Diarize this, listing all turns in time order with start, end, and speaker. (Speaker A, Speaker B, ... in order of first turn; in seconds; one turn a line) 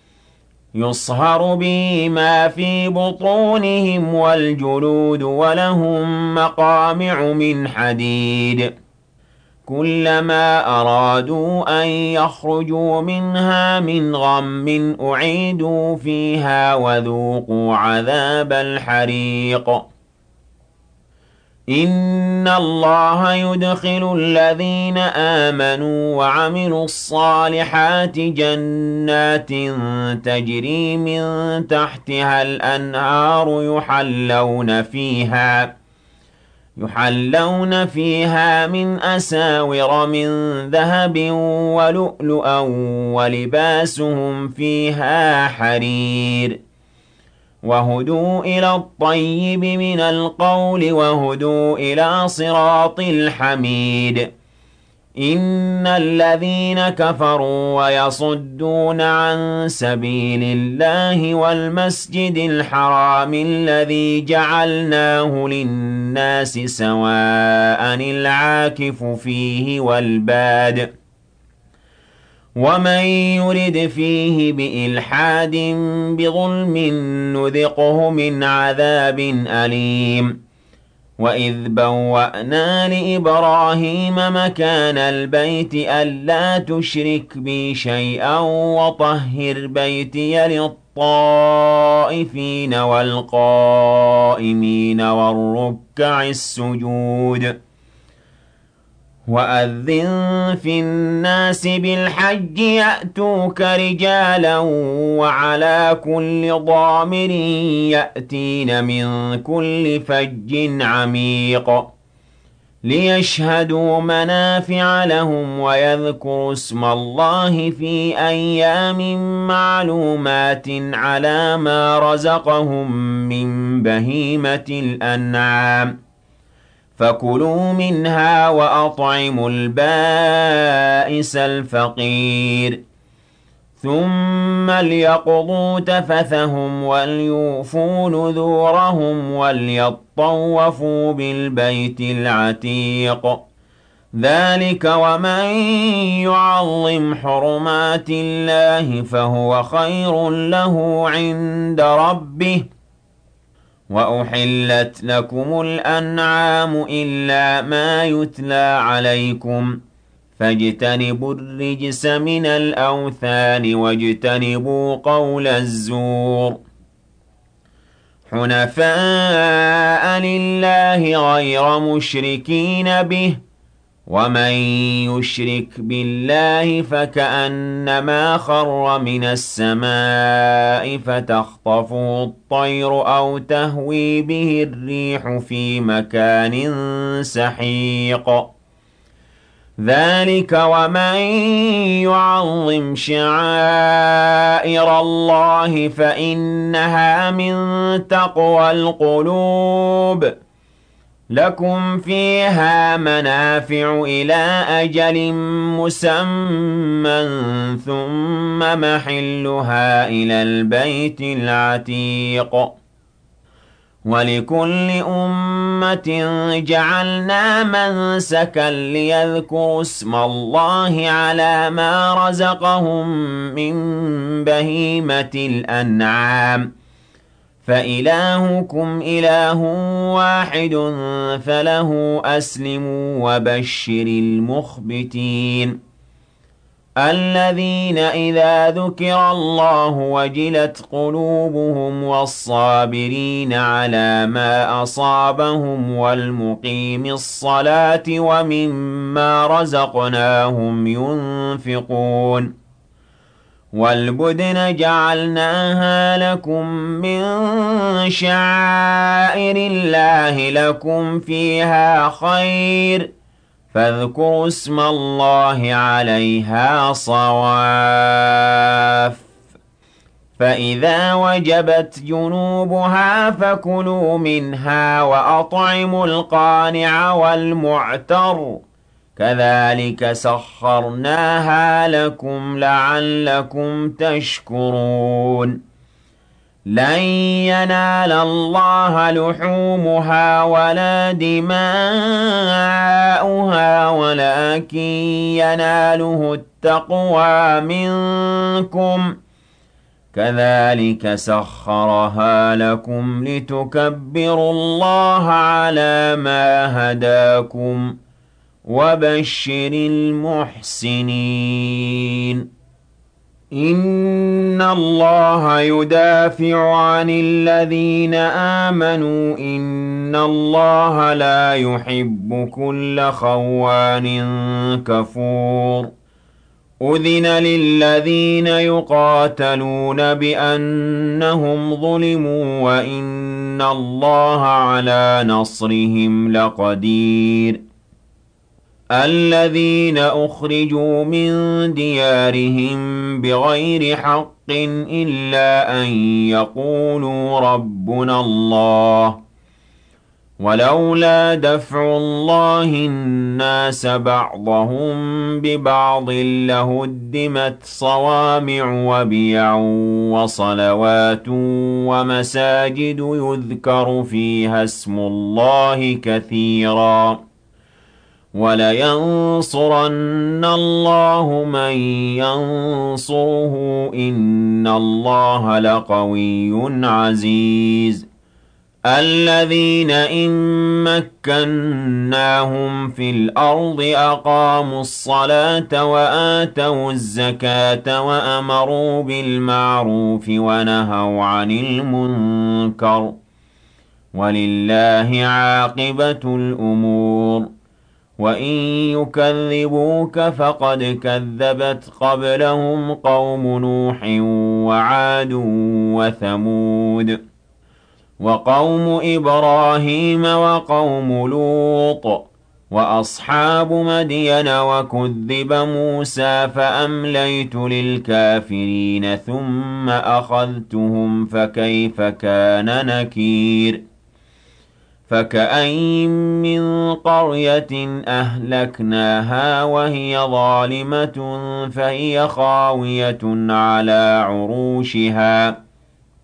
Speaker A: 0.7-8.7
Speaker A: 9.7-19.9
Speaker A: 21.7-35.8
Speaker A: 36.8-46.6
Speaker A: 47.6-54.3
Speaker A: 55.2-70.9
Speaker A: 72.6-80.4
Speaker A: 81.2-97.6
Speaker A: 99.3-111.9
Speaker A: 112.8-126.0
Speaker A: 127.0-132.8
Speaker A: 133.8-143.4
Speaker A: 144.2-152.7
Speaker A: 153.9-159.8
Speaker A: 160.4-166.6
Speaker A: 168.3-173.4
Speaker A: 174.1-188.5
Speaker A: 189.8-200.3
Speaker A: 201.3-212.7
Speaker A: 214.1-226.7
Speaker A: 227.6-235.8
Speaker A: 237.0-252.5
Speaker A: 253.7-263.1
Speaker A: 263.7-269.2
Speaker A: 270.4-278.6
Speaker A: 279.2-285.6
Speaker A: 286.7-299.2
Speaker A: 300.1-307.9
Speaker A: 308.6-312.4
Speaker A: 313.5-325.9
Speaker A: 326.8-337.6
Speaker A: 338.9-349.2
Speaker A: 350.4-367.2
Speaker A: 368.3-378.1
Speaker A: 378.9-393.2
Speaker A: 394.1-397.5
Speaker A: 398.2-407.2
Speaker A: 408.2-423.8
Speaker A: 425.1-435.6